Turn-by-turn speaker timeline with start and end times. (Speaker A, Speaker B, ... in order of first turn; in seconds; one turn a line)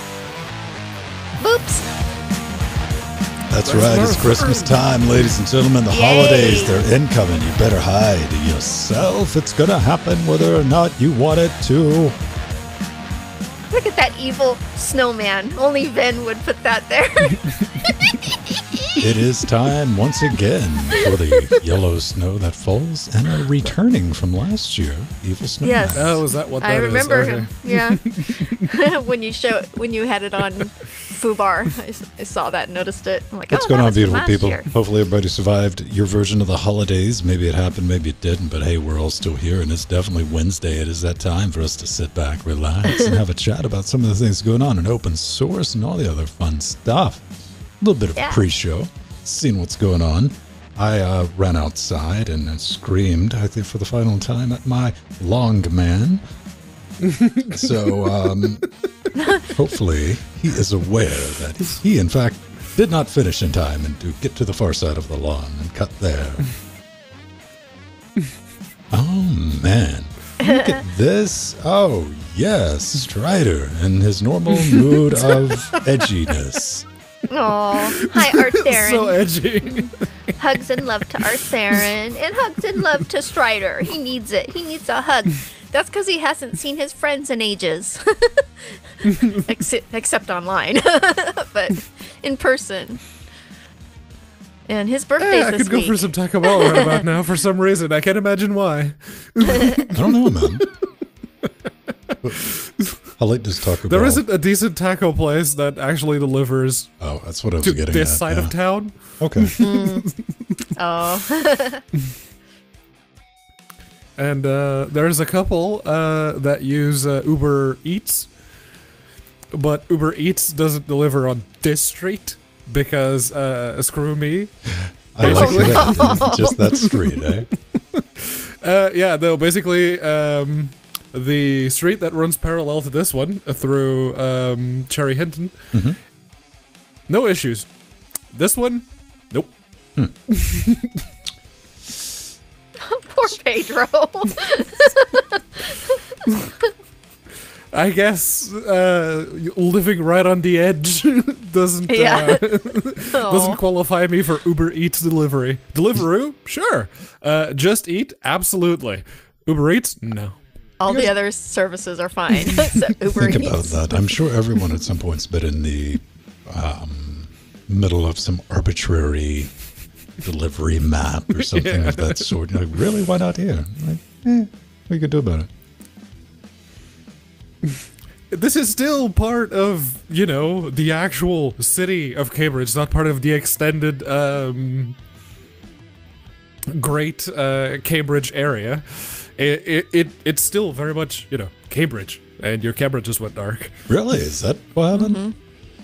Speaker A: 1.4-1.9
Speaker B: 3.5-12.2
Speaker C: 3.6-4.8
Speaker A: 5.9-6.9
Speaker A: 13.7-19.1
Speaker B: 19.0-26.2
Speaker A: 20.9-21.3
Speaker A: 25.6-34.7
Speaker C: 26.0-28.7
Speaker B: 33.5-47.3
Speaker B: 47.8-56.2
Speaker A: 48.2-48.4
Speaker C: 57.0-58.7
Speaker B: 57.5-58.7
Speaker A: 59.1-59.5
Speaker B: 59.4-66.5
Speaker B: 68.9-76.9
Speaker A: 70.4-70.8
Speaker C: 74.6-75.9
Speaker A: 77.3-93.0
Speaker C: 77.9-81.4
Speaker C: 89.1-89.4
Speaker A: 94.7-97.0
Speaker C: 95.2-100.9
Speaker B: 99.9-100.7
Speaker C: 102.1-103.0
Speaker B: 102.2-104.2
Speaker C: 103.9-106.9
Speaker B: 107.0-108.5
Speaker C: 107.6-110.6
Speaker B: 109.2-109.5
Speaker A: 109.6-110.1
Speaker A: 110.8-111.8
Speaker C: 114.2-118.3
Speaker C: 119.5-135.8
Speaker B: 124.7-127.5
Speaker A: 125.2-126.6
Speaker B: 135.7-136.0
Speaker C: 137.1-137.7
Speaker C: 138.3-139.6
Speaker C: 140.3-141.0
Speaker A: 142.8-146.0
Speaker C: 147.7-160.4
Speaker A: 151.9-153.6
Speaker A: 160.8-164.2
Speaker B: 160.9-161.1
Speaker B: 163.2-169.5
Speaker B: 170.2-175.5
Speaker C: 171.3-172.3
Speaker C: 177.7-185.0
Speaker C: 186.7-193.9
Speaker B: 193.9-195.2
Speaker A: 194.9-195.4